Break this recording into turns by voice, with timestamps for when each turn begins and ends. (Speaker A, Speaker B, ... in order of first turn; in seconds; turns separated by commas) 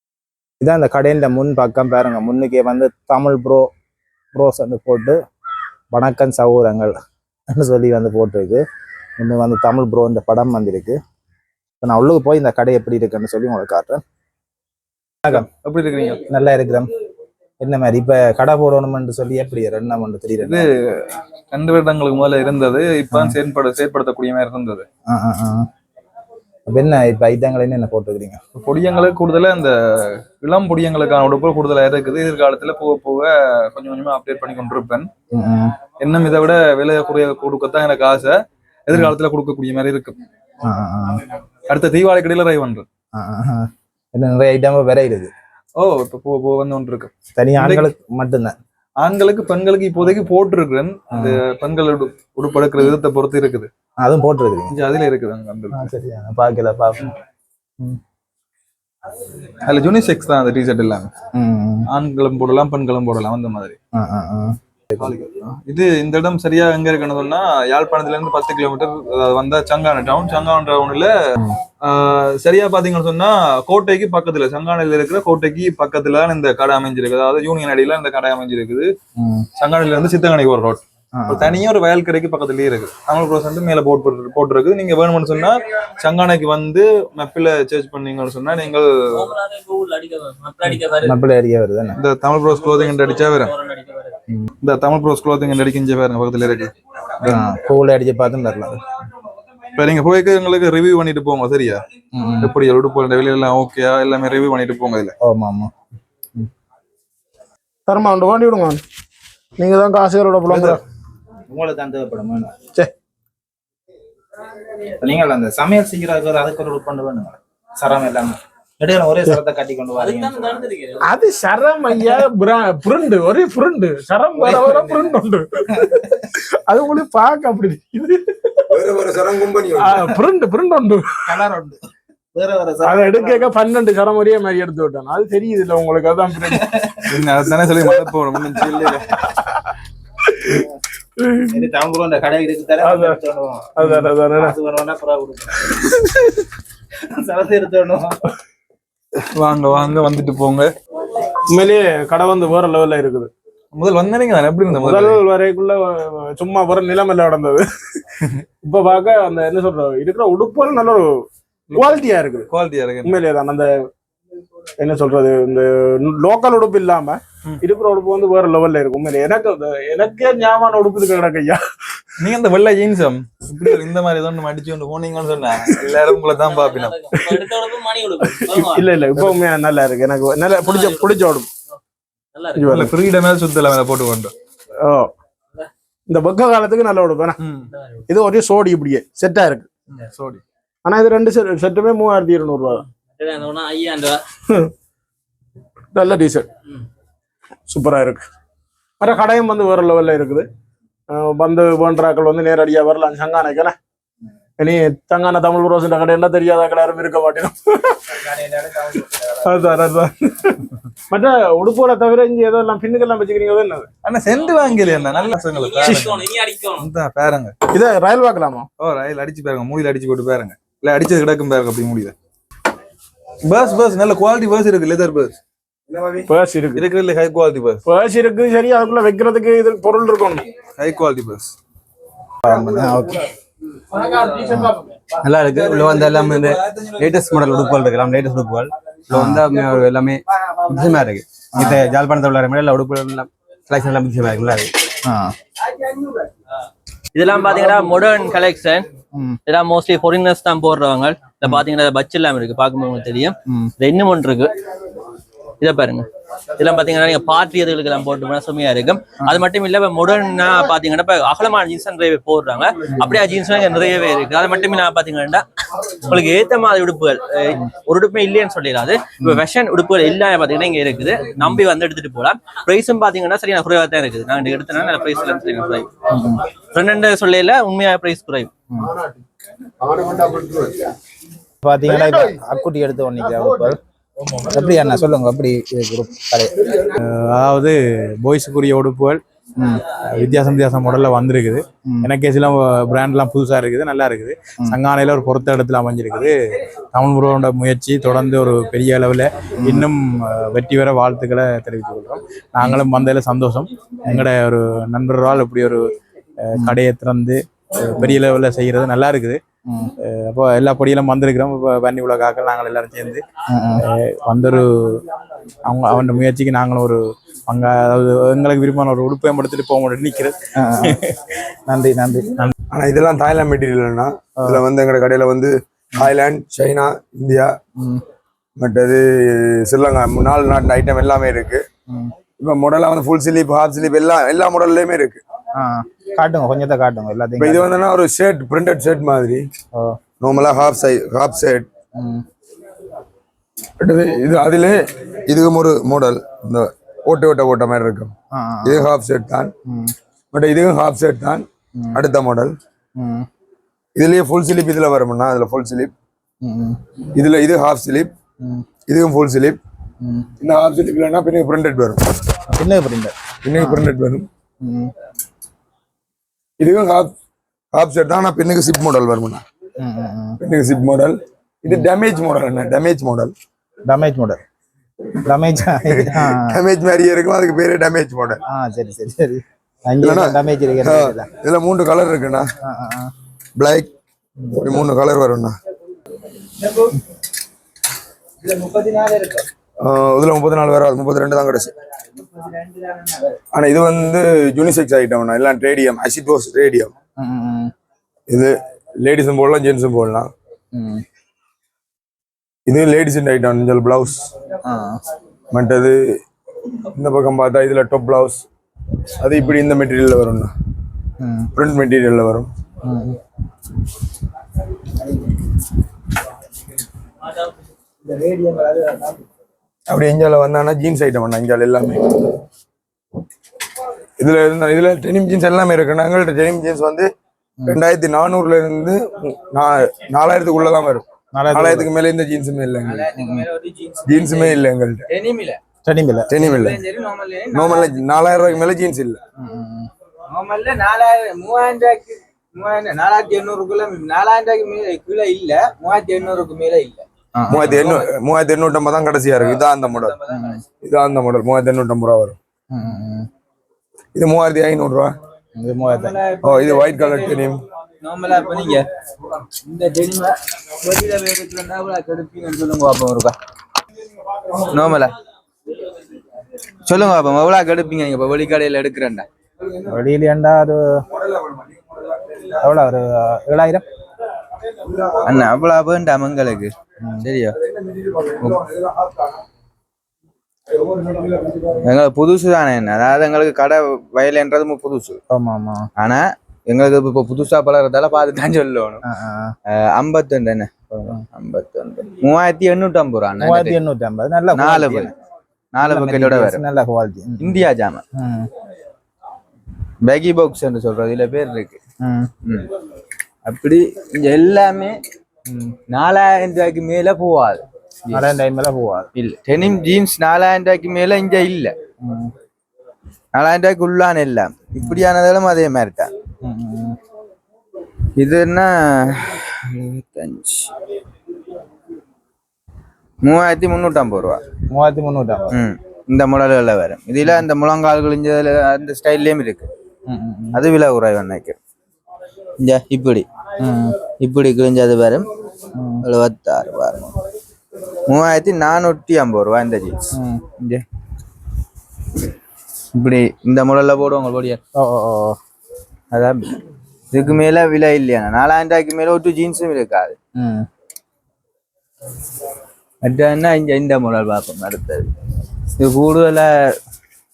Speaker A: 0.6-3.7, Speaker A: 4.3-5.2, Speaker A: 5.9-6.9, Speaker A: 7.5-8.6, Speaker A: 9.2-11.0, Speaker A: 11.8-14.0, Speaker B: 15.2-16.2, Speaker A: 16.3-16.9, Speaker A: 17.6-20.6, Speaker B: 20.4-24.8, Speaker A: 23.1-23.4, Speaker A: 25.1-25.7, Speaker A: 26.7-28.4, Speaker B: 28.5-35.1, Speaker A: 35.3-35.8, Speaker B: 36.0-40.1, Speaker A: 40.6-41.2, Speaker B: 41.7-42.9, Speaker A: 43.1-45.3, Speaker B: 45.8-47.9, Speaker A: 47.4-48.5, Speaker B: 49.0-53.7, Speaker A: 51.1-51.4, Speaker A: 54.0-54.7, Speaker B: 54.7-55.9, Speaker A: 55.7-57.1, Speaker B: 59.6-61.1, Speaker A: 61.3-61.9, Speaker B: 61.9-63.8, Speaker A: 63.9-65.1, Speaker B: 64.9-71.1, Speaker B: 71.8-78.9, Speaker A: 79.2-79.5, Speaker B: 79.6-89.3, Speaker A: 81.1-81.6, Speaker C: 89.6-90.5, Speaker A: 90.7-92.0, Speaker B: 92.0-93.5, Speaker B: 94.6-97.4, Speaker A: 97.2-98.8, Speaker B: 99.8-101.8, Speaker A: 102.1-102.5, Speaker B: 102.4-105.1, Speaker A: 105.2-105.7, Speaker D: 107.9-108.8, Speaker D: 109.6-110.8, Speaker B: 110.5-110.8, Speaker A: 111.5-112.5, Speaker A: 114.9-120.7, Speaker C: 120.0-121.0, Speaker D: 121.0-126.0, Speaker A: 124.4-124.9, Speaker D: 126.7-128.7, Speaker E: 128.7-130.2, Speaker D: 129.7-131.4, Speaker A: 131.3-131.8, Speaker A: 132.3-133.5, Speaker D: 132.8-136.6, Speaker B: 137.0-139.1, Speaker D: 141.2-141.6, Speaker A: 141.5-145.7, Speaker D: 142.8-143.2, Speaker D: 143.8-144.5, Speaker A: 147.0-148.2, Speaker B: 149.3-150.7, Speaker D: 151.5-153.3, Speaker B: 153.7-155.2, Speaker D: 154.7-157.6, Speaker D: 158.6-162.5, Speaker B: 161.7-163.2, Speaker D: 163.0-163.7, Speaker D: 164.8-171.6, Speaker B: 172.2-177.1, Speaker D: 177.1-177.5, Speaker C: 177.3-178.7, Speaker D: 178.2-181.5, Speaker C: 180.6-180.9, Speaker D: 182.5-182.9, Speaker B: 182.7-184.3, Speaker D: 184.8-185.1, Speaker D: 186.1-187.3, Speaker D: 188.1-189.7, Speaker B: 190.1-190.4, Speaker D: 190.8-192.8, Speaker C: 193.2-194.1, Speaker D: 195.9-196.5, Speaker D: 197.7-198.2, Speaker D: 199.0-200.4, Speaker D: 201.1-203.7, Speaker D: 204.6-208.0, Speaker A: 208.2-209.2, Speaker D: 208.9-210.6, Speaker D: 211.1-213.9, Speaker B: 214.0-217.5, Speaker D: 215.8-216.1, Speaker D: 217.7-218.7, Speaker B: 218.8-222.1, Speaker B: 223.4-225.3, Speaker D: 226.3-226.8, Speaker B: 226.7-227.8, Speaker D: 227.9-230.4, Speaker B: 230.8-231.5, Speaker A: 232.4-233.3, Speaker A: 234.4-234.8, Speaker F: 235.2-244.7, Speaker A: 239.1-239.5, Speaker A: 241.5-241.9, Speaker A: 245.0-245.3, Speaker C: 247.1-248.9, Speaker A: 249.1-249.4, Speaker C: 249.5-254.5, Speaker A: 253.5-253.7, Speaker C: 255.6-256.1, Speaker C: 256.6-265.4, Speaker C: 266.0-275.9, Speaker A: 276.1-276.4, Speaker C: 276.7-278.5, Speaker D: 279.9-280.8, Speaker A: 281.6-283.8, Speaker D: 281.9-282.3, Speaker A: 284.5-286.6, Speaker G: 286.8-289.2, Speaker A: 289.6-289.8, Speaker G: 290.0-296.4, Speaker G: 296.9-305.8, Speaker A: 299.6-299.9, Speaker G: 306.4-309.4, Speaker G: 310.0-313.2, Speaker A: 313.5-313.8, Speaker G: 313.8-315.0, Speaker G: 315.6-320.3, Speaker A: 320.6-321.0, Speaker A: 321.7-322.5, Speaker E: 322.7-327.5, Speaker A: 327.8-328.0, Speaker E: 328.6-331.6, Speaker E: 332.4-335.2, Speaker A: 335.5-337.7, Speaker E: 337.4-339.5, Speaker E: 340.2-341.7, Speaker A: 341.9-342.2, Speaker E: 343.8-348.1, Speaker A: 348.3-348.9, Speaker E: 348.6-349.5, Speaker A: 349.6-349.9, Speaker E: 350.3-352.6, Speaker A: 351.8-352.0, Speaker A: 353.0-353.3, Speaker E: 353.9-355.9, Speaker A: 356.4-356.8, Speaker E: 357.1-358.1, Speaker E: 358.9-359.6, Speaker A: 360.0-360.3, Speaker E: 360.4-362.0, Speaker A: 362.5-363.9, Speaker E: 363.4-364.2, Speaker A: 364.6-364.9, Speaker E: 366.6-367.1, Speaker E: 367.7-369.4, Speaker A: 369.8-370.4, Speaker E: 370.4-373.3, Speaker A: 373.9-374.4, Speaker A: 375.2-376.6, Speaker E: 375.9-378.4, Speaker A: 378.5-381.3, Speaker E: 380.0-382.4, Speaker A: 382.6-383.1, Speaker E: 383.6-383.9, Speaker E: 384.5-385.5, Speaker E: 389.8-391.7, Speaker E: 393.5-396.9, Speaker A: 397.2-397.7, Speaker E: 398.3-400.3, Speaker A: 400.7-401.0, Speaker E: 402.7-404.3, Speaker A: 404.6-405.0, Speaker E: 405.5-406.0, Speaker E: 406.9-408.4, Speaker E: 409.2-410.5, Speaker A: 411.2-411.5, Speaker E: 411.6-412.5, Speaker A: 412.8-413.1, Speaker E: 419.9-422.0, Speaker E: 424.2-427.1, Speaker E: 427.6-433.1, Speaker A: 431.3-431.9, Speaker H: 432.8-435.6, Speaker A: 433.1-433.4, Speaker E: 434.1-435.0, Speaker A: 435.8-436.3, Speaker E: 436.3-436.8, Speaker H: 436.4-438.0, Speaker E: 437.5-439.2, Speaker A: 439.4-439.9, Speaker H: 440.3-447.0, Speaker A: 447.4-447.8, Speaker E: 447.5-450.1, Speaker H: 447.6-448.1, Speaker H: 449.4-450.6, Speaker A: 450.3-450.6, Speaker E: 450.8-452.4, Speaker A: 452.7-453.3, Speaker E: 454.1-455.1, Speaker A: 455.6-456.1, Speaker H: 455.9-457.4, Speaker E: 456.4-457.6, Speaker H: 458.0-458.9, Speaker H: 459.6-463.3, Speaker H: 464.5-465.1, Speaker H: 466.8-469.2, Speaker A: 469.8-471.0, Speaker A: 472.6-473.8, Speaker H: 475.1-477.6, Speaker H: 478.3-478.7, Speaker H: 481.8-485.2, Speaker A: 485.3-485.9, Speaker H: 486.0-489.0, Speaker A: 489.1-489.6, Speaker H: 489.7-493.8, Speaker A: 493.4-495.1, Speaker H: 494.5-495.1, Speaker H: 495.7-496.6, Speaker A: 495.8-497.6, Speaker H: 497.4-498.0, Speaker A: 498.1-498.5, Speaker H: 500.0-501.8, Speaker A: 502.0-502.3, Speaker H: 503.4-505.0, Speaker A: 505.4-505.8, Speaker H: 505.9-508.3, Speaker A: 508.1-509.1, Speaker H: 509.1-511.7, Speaker A: 512.0-512.3, Speaker H: 513.3-516.1, Speaker A: 516.4-517.0, Speaker H: 518.2-520.7, Speaker H: 523.2-524.4, Speaker A: 524.7-525.5, Speaker H: 525.5-529.7, Speaker A: 530.1-530.6, Speaker H: 530.5-531.6, Speaker H: 532.6-533.2, Speaker A: 533.6-534.0, Speaker H: 534.2-535.3, Speaker A: 535.7-536.0, Speaker H: 536.0-537.1, Speaker H: 538.1-540.0, Speaker A: 540.1-540.4, Speaker H: 542.9-544.6, Speaker A: 544.8-545.4, Speaker H: 546.1-546.6, Speaker H: 547.1-550.1, Speaker A: 550.4-550.7, Speaker H: 553.0-555.1, Speaker H: 555.8-556.7